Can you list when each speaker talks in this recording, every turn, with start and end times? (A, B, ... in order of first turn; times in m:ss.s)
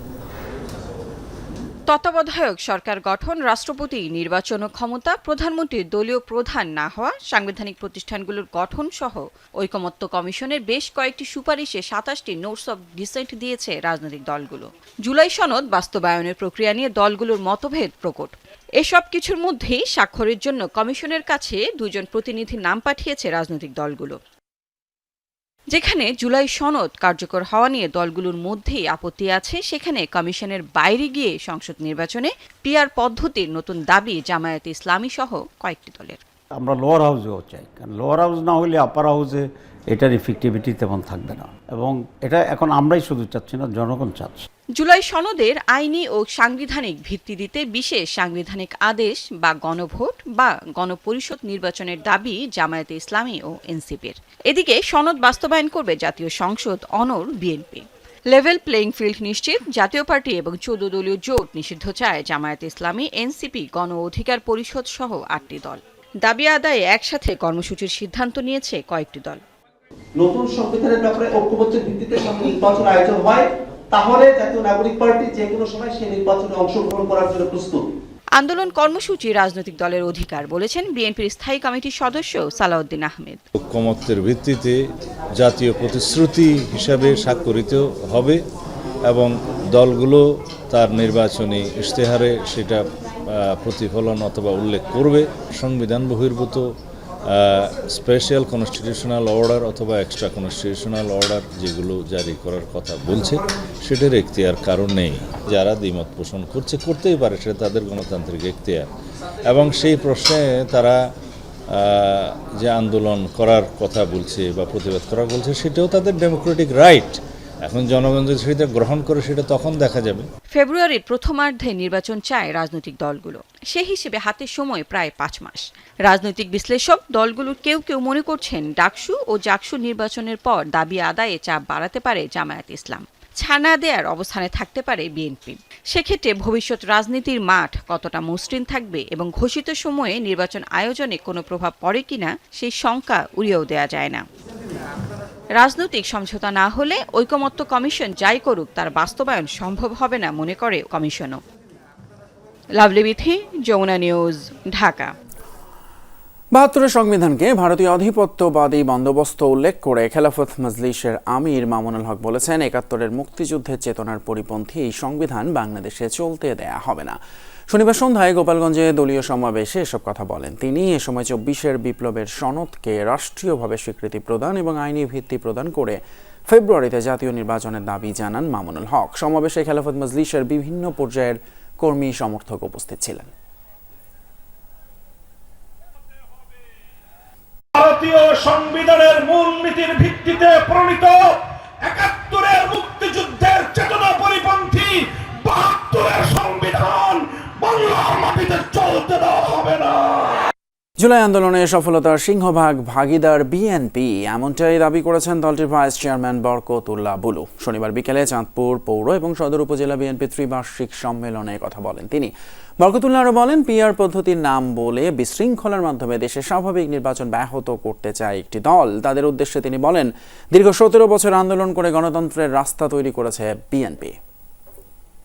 0:01.9-0:24.2 A
0:25.7-0:36.2 A
0:36.6-0:44.5 B
0:44.8-1:09.4 A
1:10.2-1:17.8 C
1:18.4-1:23.4 A
1:23.6-1:24.8 D
1:25.4-1:28.4 D
1:29.1-1:36.6 D
1:37.3-1:48.9 D
1:49.5-1:51.0 D
1:51.8-2:00.3 D
2:00.5-2:24.2 A
2:25.6-2:31.4 A
2:32.8-2:35.1 A
2:36.5-2:47.2 E
2:47.7-3:03.3 E
3:07.8-3:11.2 F
3:11.9-3:15.0 F
3:15.5-3:20.2 F
3:21.0-3:44.2 E